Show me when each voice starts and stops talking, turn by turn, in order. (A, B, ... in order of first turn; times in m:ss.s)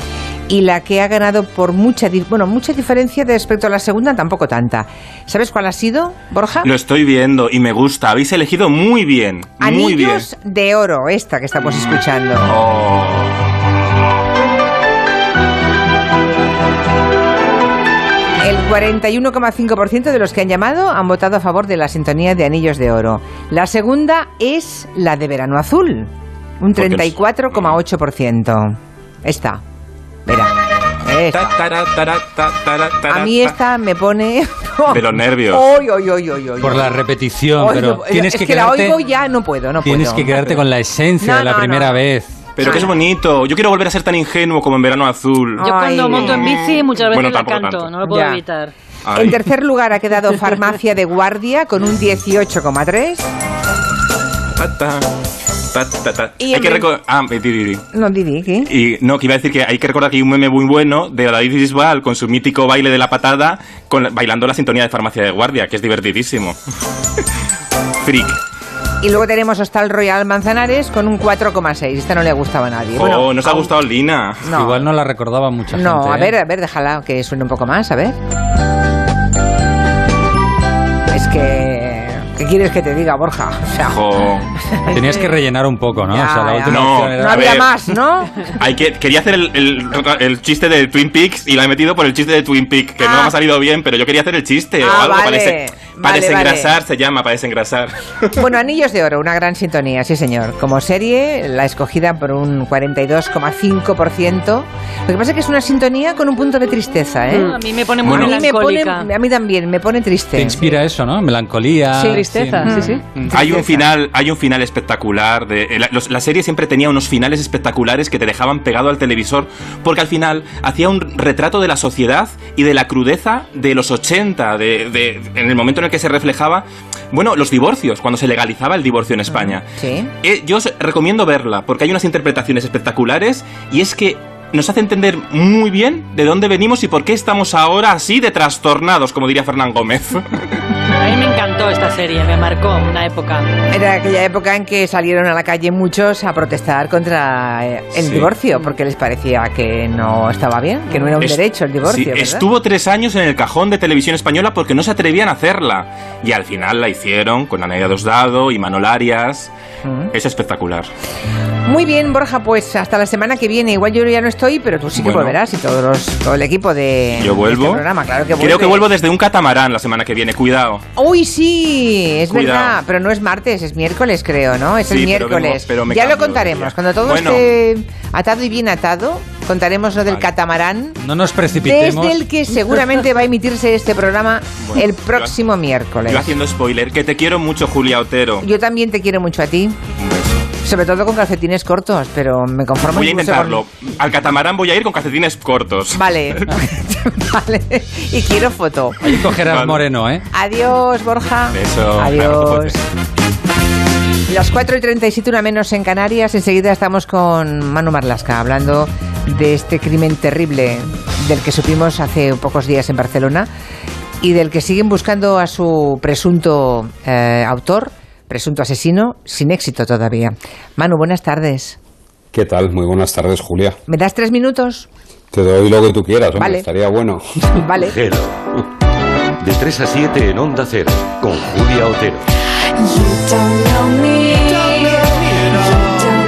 0:00.5-0:06.7 A
0:06.6-0:10.3 B
0:09.6-0:12.5 A
0:11.6-0:13.6 B
0:18.4-0:29.6 A
0:26.8-0:27.8 B
0:30.3-0:31.6 A
0:31.3-0:33.5 B
0:33.1-0:37.0 A
0:34.9-0:35.7 B
0:36.6-0:39.0 C
0:37.6-0:40.6 A
0:39.8-0:42.3 C
0:41.2-0:42.0 A
0:42.6-0:47.9 B
0:42.6-0:42.9 A
0:45.6-0:46.5 A
0:45.6-0:48.7 D
0:48.0-0:48.4 A
0:49.0-0:49.4 B
0:49.2-0:53.3 A
0:54.6-0:55.1 B
0:55.7-0:57.9 B
0:56.4-0:56.9 A
0:57.9-0:58.7 A
0:58.7-1:06.6 B
1:08.0-1:08.4 B
1:09.0-1:13.7 A
1:12.9-1:14.5 B
1:14.4-1:14.8 A
1:14.5-1:16.3 C
1:15.7-1:18.2 A
1:21.1-1:24.0 A
1:23.9-1:24.5 B
1:24.6-1:25.3 A
1:24.9-1:27.6 C
1:26.0-1:28.5 A
1:26.7-1:27.7 B
1:28.4-1:38.4 B
1:33.0-1:33.3 A
1:34.8-1:36.8 A
1:38.4-1:47.5 A
1:47.3-1:49.1 D
1:48.0-1:48.4 B
1:48.1-1:50.6 A
1:50.4-1:53.6 C
1:52.0-1:53.8 A
1:52.1-1:53.0 D
1:53.3-2:09.7 B
2:09.3-2:10.1 A
2:10.2-2:20.5 B
2:21.0-2:23.5 D
2:23.7-2:32.4 A
2:28.0-2:28.3 B
2:31.2-2:39.5 B
2:39.9-2:40.1 A
2:40.1-2:40.9 B
2:41.7-2:48.8 A
2:45.0-2:45.4 B
2:47.2-2:47.8 B
2:48.4-2:50.8 B
2:51.0-3:01.0 A
2:52.3-2:52.8 B
2:54.9-2:57.4 B
3:01.0-3:02.2 C
3:01.6-3:06.3 A
3:04.6-3:05.3 B
3:06.1-3:08.4 B
3:08.4-3:09.8 A
3:10.0-3:10.5 B
3:10.6-3:13.6 A
3:12.9-3:16.5 B
3:15.9-3:19.0 A
3:19.0-3:20.2 C
3:19.4-3:19.8 B
3:20.3-3:22.8 A
3:21.5-3:22.8 B
3:24.3-3:33.5 A
3:34.2-3:41.8 A
3:42.3-3:43.8 E
3:43.9-3:44.9 A
3:45.3-3:47.5 E
3:46.4-3:46.7 A
3:47.5-3:48.0 A
3:48.0-3:48.4 F
3:49.4-3:52.2 F
3:54.4-3:55.0 D